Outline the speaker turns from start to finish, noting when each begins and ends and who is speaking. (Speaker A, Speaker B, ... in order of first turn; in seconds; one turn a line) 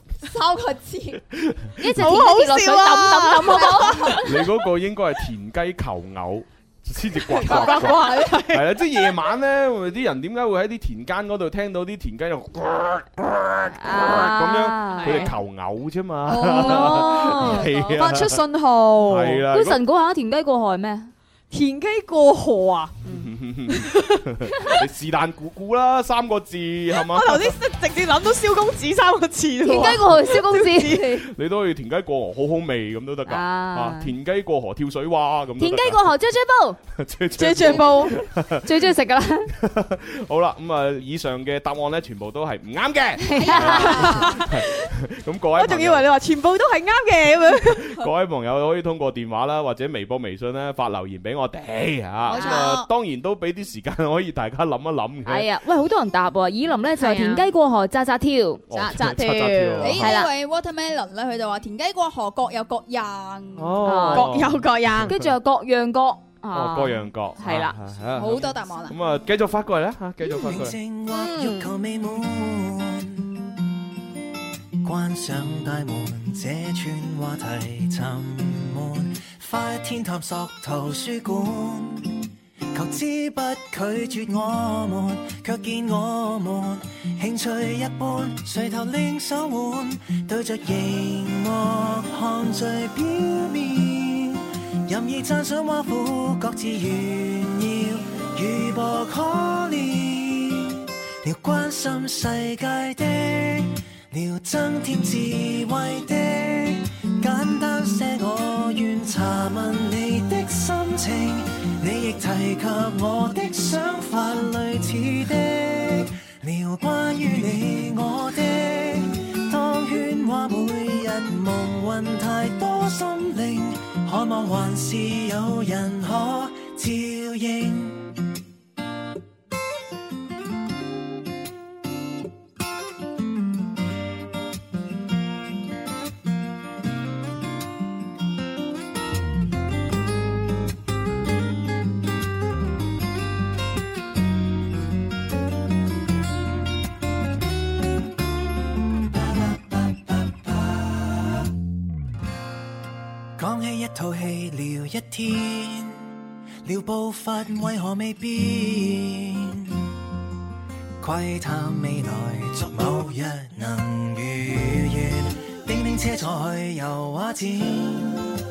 Speaker A: 0.2-1.2
Speaker B: 1.3-1.8
Speaker C: 1.8-4.2
Speaker D: 1.8-4.2
Speaker A: 3.5-3.9
Speaker B: 4.2-18.4
Speaker D: 7.4-8.8
Speaker A: 7.5-8.3
Speaker C: 13.8-15.3
Speaker D: 14.9-15.3
Speaker D: 16.3-19.4
Speaker C: 16.6-17.7
Speaker B: 19.1-19.8
Speaker C: 19.5-21.1
Speaker D: 21.5-23.1
Speaker B: 23.1-27.6
Speaker D: 23.7-24.2
Speaker D: 26.9-31.2
Speaker C: 29.6-31.2
Speaker B: 31.1-36.0
Speaker C: 33.3-34.1
Speaker C: 35.6-36.8
Speaker B: 36.9-38.9
Speaker D: 37.4-38.2
Speaker C: 37.7-38.1
Speaker C: 38.6-39.5
Speaker B: 39.5-46.1
Speaker C: 43.2-44.3
Speaker A: 43.4-44.2
Speaker D: 43.8-44.9
Speaker D: 45.5-47.9
Speaker B: 47.9-55.5
Speaker A: 52.3-52.9
Speaker C: 55.2-58.6
Speaker D: 57.0-57.5
Speaker B: 58.7-60.1
Speaker D: 58.7-59.9
Speaker A: 59.8-63.8
Speaker C: 60.0-60.3
Speaker B: 63.6-65.2
Speaker C: 63.8-64.4
Speaker D: 64.1-65.1
Speaker C: 65.0-67.8
Speaker B: 66.5-70.8
Speaker A: 68.1-69.0
Speaker E: 70.2-73.3
Speaker D: 71.1-71.7
Speaker E: 74.8-128.2
Speaker E: 149.2-151.2
Speaker E: 153.4-156.1
Speaker E: 156.6-159.7
Speaker E: 161.0-168.3